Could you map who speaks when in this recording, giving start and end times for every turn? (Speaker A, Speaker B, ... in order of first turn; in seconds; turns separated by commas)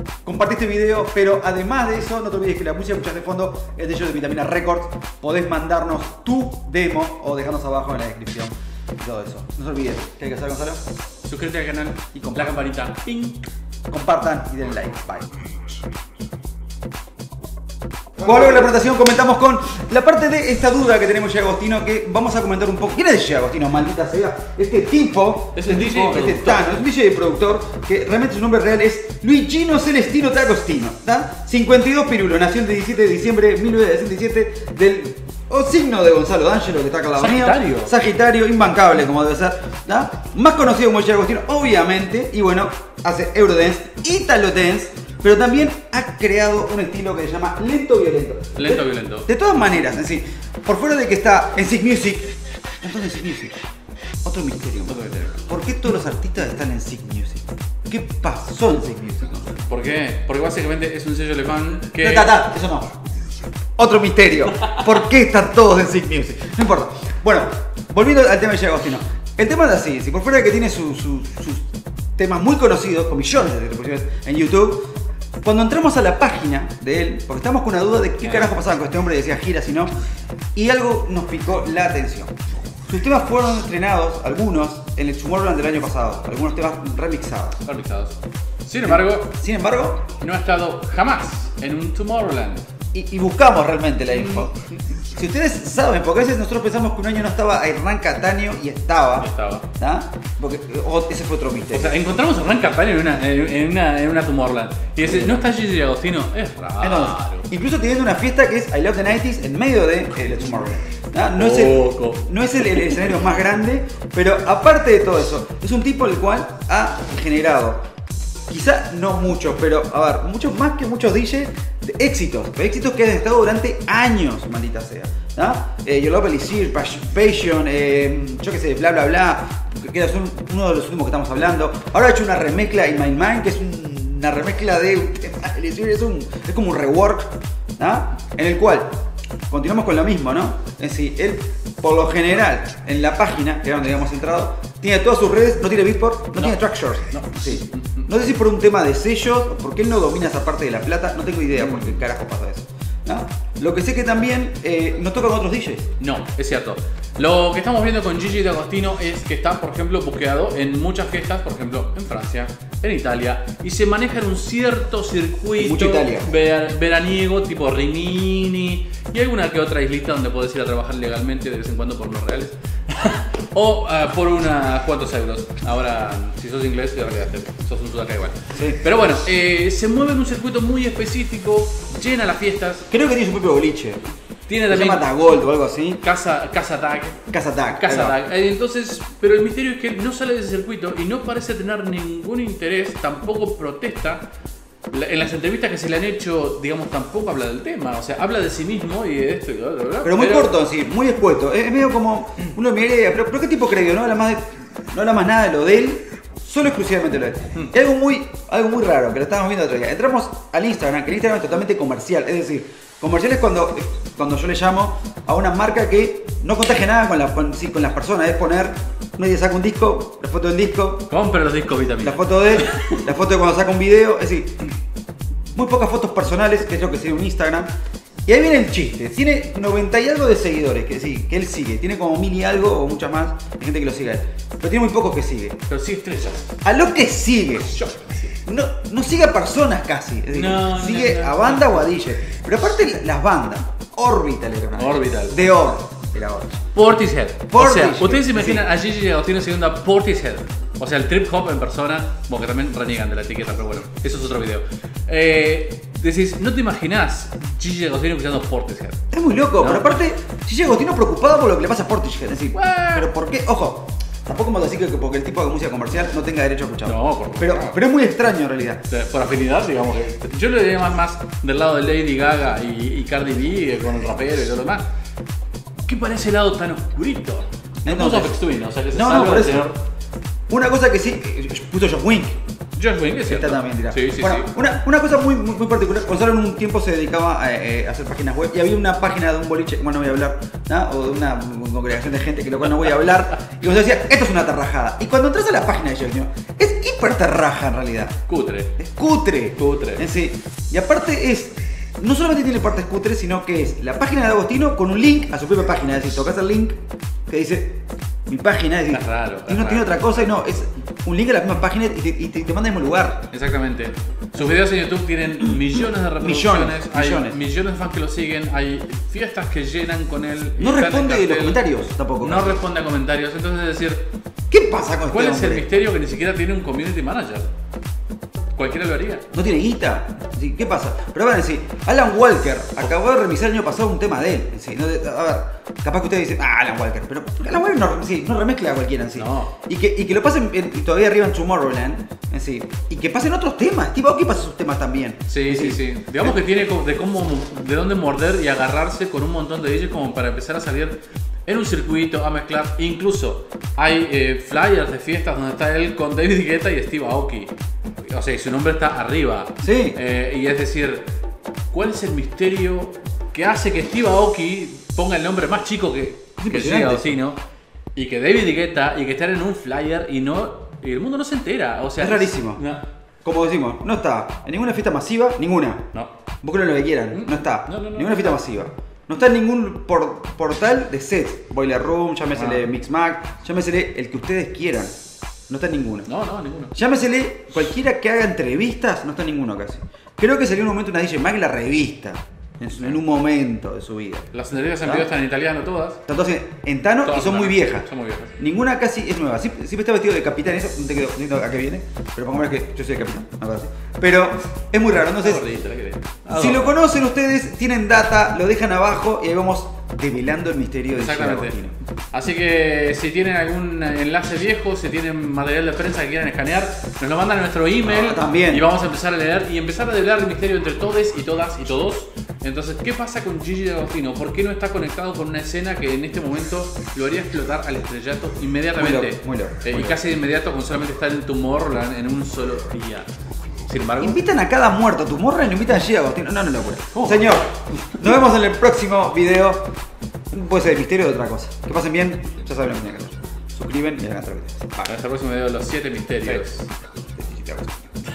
Speaker A: 0.2-10.8, Speaker B: 11.2-13.5, Speaker A: 12.1-12.6, Speaker A: 13.9-15.3, Speaker A: 18.2-53.5, Speaker B: 25.5-26.8, Speaker B: 37.1-37.9, Speaker B: 48.5-49.3, Speaker A: 54.2-59.6, Speaker B: 54.9-55.4, Speaker B: 59.7-62.3, Speaker A: 61.9-63.0, Speaker A: 63.8-71.7, Speaker A: 72.2-74.9, Speaker A: 75.4-79.9, Speaker B: 78.2-78.5, Speaker A: 80.5-82.3, Speaker A: 82.9-87.6, Speaker B: 87.6-89.3, Speaker A: 88.8-90.1, Speaker B: 90.2-92.6, Speaker A: 92.9-102.0, Speaker B: 94.1-94.6, Speaker B: 99.2-99.7, Speaker B: 101.7-107.5, Speaker A: 105.0-105.4, Speaker A: 106.8-117.8, Speaker B: 111.3-113.1, Speaker A: 118.5-138.9, Speaker A: 139.5-155.9, Speaker B: 147.1-148.1, Speaker B: 151.5-152.0, Speaker B: 156.0-182.9, Speaker A: 165.6-166.3, Speaker A: 178.5-178.8, Speaker A: 182.9-184.0, Speaker B: 184.5-185.1, Speaker A: 184.7-186.0, Speaker B: 186.0-194.3, Speaker A: 187.3-188.1, Speaker B: 194.9-200.5, Speaker A: 200.0-221.1, Speaker B: 221.1-223.1, Speaker A: 222.0-224.6, Speaker A: 225.5-227.7, Speaker A: 228.3-235.6, Speaker B: 235.7-236.5, Speaker A: 236.6-237.7, Speaker B: 237.7-238.4, Speaker A: 238.4-246.6, Speaker B: 240.3-241.9, Speaker B: 244.8-245.4, Speaker B: 246.7-259.0, Speaker A: 247.5-248.7, Speaker A: 259.1-268.8, Speaker B: 259.5-260.0, Speaker B: 262.5-263.1, Speaker B: 266.8-267.8, Speaker B: 268.9-274.9, Speaker B: 275.9-279.8, Speaker A: 277.9-278.4, Speaker A: 278.9-279.7, Speaker A: 280.5-282.4, Speaker B: 282.8-284.5, Speaker A: 283.2-298.2, Speaker B: 292.8-293.1, Speaker B: 298.3-298.8, Speaker A: 298.8-306.8, Speaker B: 299.6-300.0, Speaker A: 307.3-313.3, Speaker B: 308.9-310.4, Speaker B: 313.3-321.6, Speaker A: 316.2-317.4, Speaker A: 320.6-322.6, Speaker B: 322.2-324.1, Speaker A: 324.5-325.7, Speaker B: 325.1-327.5, Speaker B: 328.5-329.3, Speaker A: 329.3-346.4, Speaker B: 339.2-339.5, Speaker B: 345.3-361.1, Speaker A: 359.6-360.0, Speaker B: 361.7-367.4, Speaker A: 366.4-367.1, Speaker B: 367.9-372.9, Speaker A: 372.0-372.6, Speaker A: 373.2-375.9, Speaker A: 376.4-384.9, Speaker B: 377.1-378.4, Speaker B: 382.3-382.7, Speaker A: 385.5-386.1, Speaker B: 386.1-386.7, Speaker A: 386.7-394.3, Speaker B: 394.3-396.0, Speaker A: 394.8-395.1, Speaker A: 396.1-397.9, Speaker B: 397.0-398.4, Speaker A: 398.4-405.4, Speaker B: 405.2-406.8, Speaker A: 406.3-411.7, Speaker B: 410.9-411.6, Speaker B: 412.1-433.1, Speaker A: 417.8-418.7, Speaker A: 428.8-429.9, Speaker B: 433.7-434.2, Speaker A: 434.0-439.7, Speaker B: 436.9-437.6, Speaker A: 440.3-444.9, Speaker B: 444.9-446.7, Speaker A: 447.1-447.9